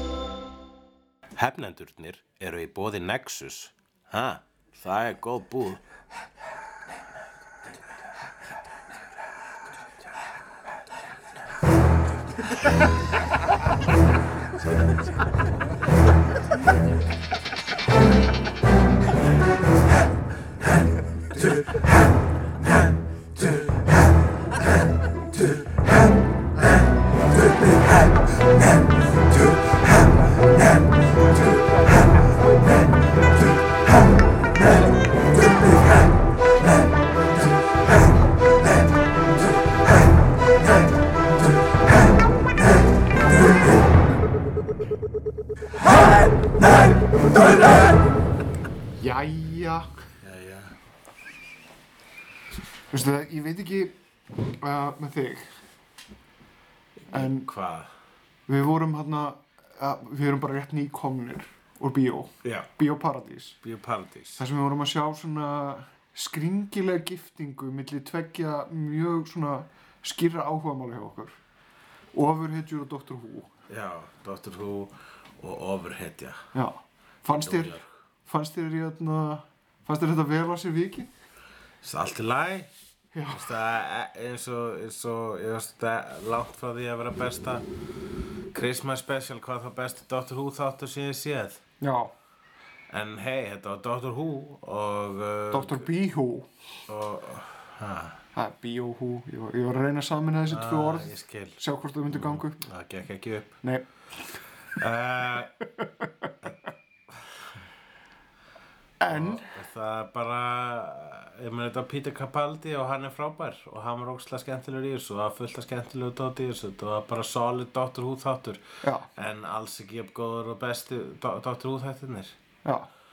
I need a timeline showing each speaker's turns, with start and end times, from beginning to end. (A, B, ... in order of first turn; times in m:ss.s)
0:01.3-0:05.8 A
0:49.0-0:49.9 B
0:50.2-0:50.8 A
0:52.9-0:53.9 B
0:54.6-0:55.4 B
0:57.0-0:57.9 A
0:57.1-0:57.5 B
0:58.5-1:03.6 B
1:02.4-1:02.7 A
1:03.6-1:04.4 A
1:04.4-1:11.3 B
1:12.1-1:13.5 B
1:13.7-1:16.4 A
1:16.5-1:21.1 B
1:17.3-1:17.9 A
1:21.8-1:22.7 A
1:23.1-1:23.5 B
1:23.3-1:27.7 A
1:28.5-1:31.6 A
1:31.8-1:32.1 B
1:32.9-1:35.9 A
1:35.5-1:36.5 B
1:36.9-1:38.2 A
1:38.3-1:42.6 B
1:40.5-1:43.5 A
1:43.6-1:43.9 B
1:44.8-1:45.5 A
1:45.6-1:46.3 B
1:47.1-1:47.5 A
1:49.0-1:49.5 B
1:49.1-2:02.4 A
1:58.8-1:59.1 B
2:02.6-2:02.9 B